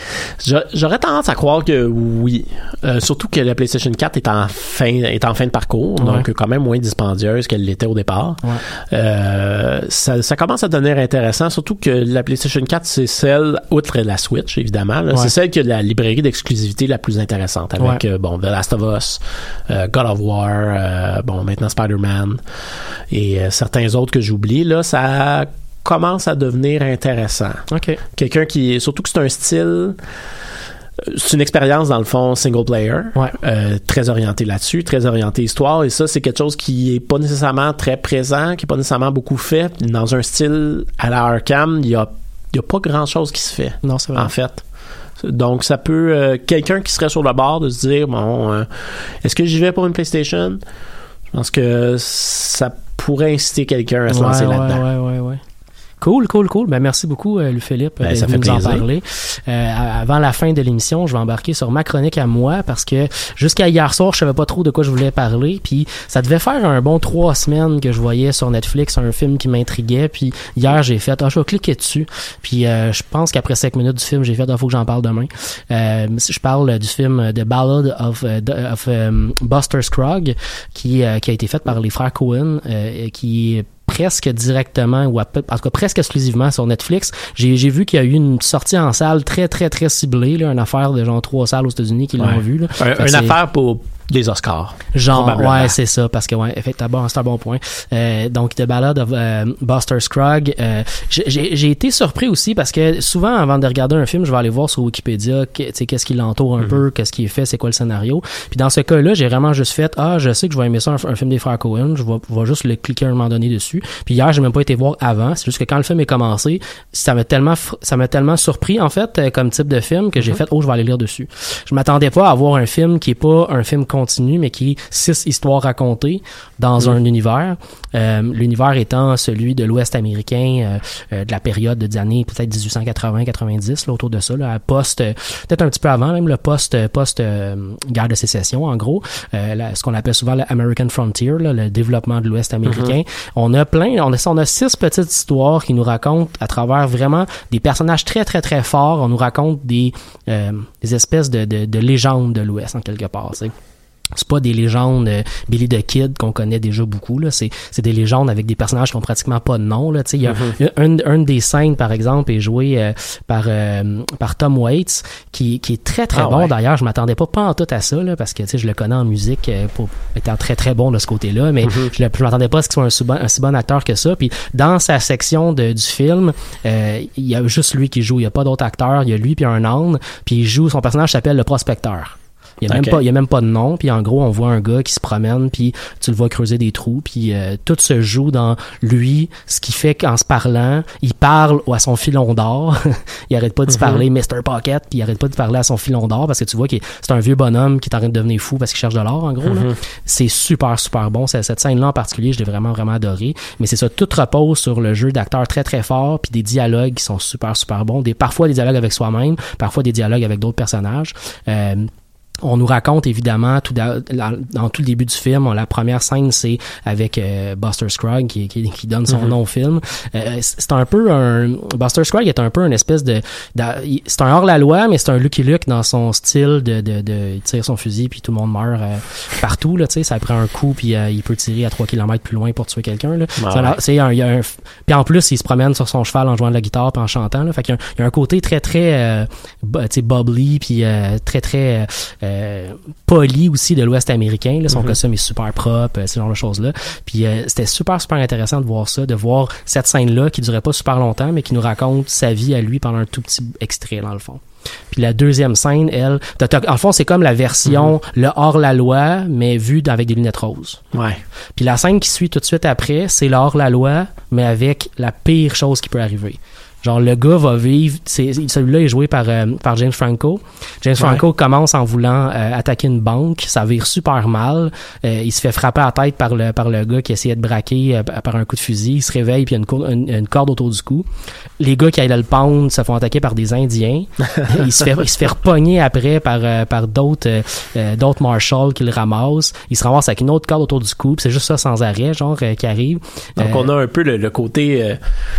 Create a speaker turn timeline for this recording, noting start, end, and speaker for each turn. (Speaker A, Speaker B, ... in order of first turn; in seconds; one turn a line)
Speaker A: 0.4-22.4
Speaker B: 6.0-6.3
Speaker A: 23.1-30.0
Speaker B: 27.7-28.0
Speaker A: 31.0-44.6
Speaker B: 43.8-44.3
Speaker A: 45.2-50.6
Speaker A: 51.3-54.8
Speaker B: 54.1-55.4
Speaker B: 56.0-93.4
Speaker A: 58.0-58.9
Speaker A: 92.2-95.7
Speaker B: 94.9-153.5
Speaker A: 142.7-142.9
Speaker B: 154.2-211.9
Speaker A: 160.2-160.6
Speaker A: 166.1-166.5
Speaker A: 171.6-171.9
Speaker A: 182.7-183.0
Speaker A: 193.7-194.0
Speaker A: 199.4-199.7
Speaker B: 212.4-260.8
Speaker A: 233.4-233.8
Speaker A: 257.7-257.9
Speaker A: 260.9-261.2
Speaker B: 261.6-281.1
Speaker A: 271.0-271.2
Speaker B: 281.6-293.7
Speaker A: 293.4-295.0